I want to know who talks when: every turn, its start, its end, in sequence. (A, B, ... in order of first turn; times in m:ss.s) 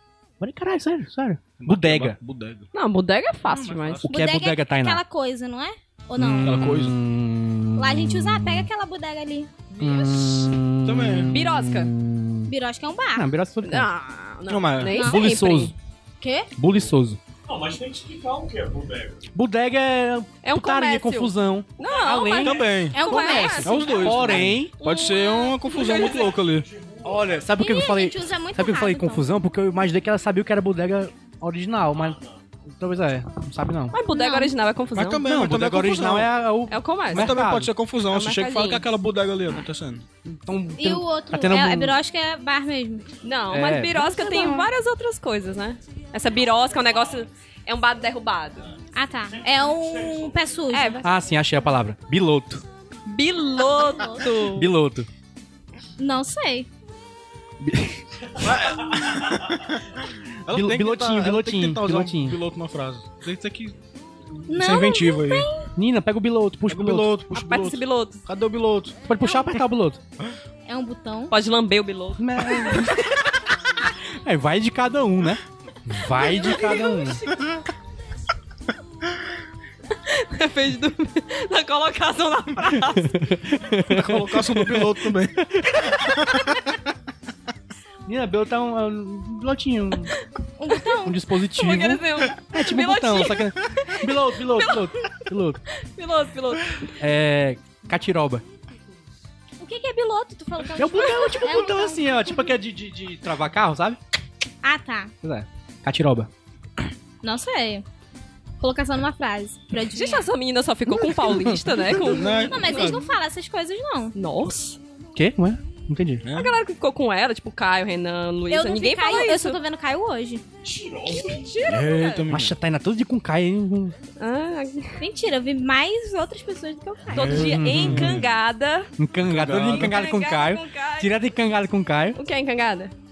0:00.4-0:02.2 A
0:01.6-0:02.7 B
0:02.7-0:04.0 C
0:03.5-0:04.1 B
0:04.0-0:05.0 A
0:04.1-0:06.6 D
0:06.2-0:08.7 A
0:06.3-0:07.0 B
0:07.8-0:09.5 D
0:09.8-0:12.5 A
0:09.8-0:10.1 C
0:10.8-0:11.3 B
0:11.3-0:11.9 C
0:12.5-0:13.3 D
0:13.1-0:13.9 A
0:13.6-0:15.7 C
0:14.5-0:15.0 B
0:14.9-0:15.2 D
0:14.9-0:15.7 A
0:16.2-0:16.5 D
0:16.6-0:17.2 A
0:17.5-0:19.1 E
0:19.3-0:24.8 A
0:20.4-0:26.4 C
0:22.4-0:26.7 B
0:22.9-0:23.9 D
0:27.0-0:33.9 A
0:27.5-0:29.3 D
0:33.9-0:35.3 C
0:34.1-0:34.5 D
0:35.0-0:36.3 B
0:35.2-0:37.7 A
0:36.7-0:37.4 C
0:37.1-0:40.0 B
0:38.1-0:38.9 C
0:40.3-0:42.0 A
0:40.8-0:43.1 D
0:43.2-0:48.7 C
0:43.5-0:44.1 A
0:44.1-0:44.7 D
0:48.9-0:51.1 D
0:50.7-0:51.0 C
0:51.0-0:52.6 A
0:53.1-0:54.7 C
0:53.7-0:54.3 D
0:54.5-0:55.1 A
0:56.0-0:56.7 D
0:57.6-0:58.0 A
0:58.4-0:59.8 B
1:00.5-1:03.8 B
1:00.5-1:02.4 A
1:04.4-1:05.5 B
1:04.5-1:05.7 D
1:05.8-1:07.2 A
1:06.7-1:09.0 B
1:07.3-1:08.2 C
1:09.1-1:10.0 A
1:10.7-1:11.4 D
1:11.3-1:12.8 C
1:12.2-1:13.4 A
1:14.1-1:17.2 A
1:16.5-1:17.1 D
1:20.0-1:23.2 C
1:22.9-1:26.5 A
1:23.9-1:25.4 B
1:28.1-1:30.1 A
1:30.6-1:31.2 D
1:30.9-1:35.6 A
1:31.6-1:35.1 C
1:35.8-1:36.8 C
1:37.0-1:38.4 A
1:39.6-1:42.4 D
1:40.8-1:44.0 A
1:44.6-1:45.1 D
1:45.2-1:46.3 A
1:47.2-1:47.8 D
1:48.6-1:50.3 D
1:49.9-1:53.0 C
1:51.9-1:53.0 B
1:52.4-1:54.1 D
1:54.1-1:54.8 C
1:55.1-1:56.2 A
1:56.2-1:56.6 B
1:56.3-1:59.6 C
1:58.5-2:00.4 D
2:00.6-2:01.3 E
2:01.1-2:02.3 C
2:01.6-2:02.5 B
2:02.3-2:04.0 A
2:04.2-2:05.0 C
2:05.0-2:07.4 D
2:07.1-2:08.9 C
2:07.2-2:08.2 A
2:07.9-2:08.2 B
2:09.0-2:12.2 A
2:09.3-2:10.0 B
2:09.6-2:11.1 C
2:12.1-2:12.9 C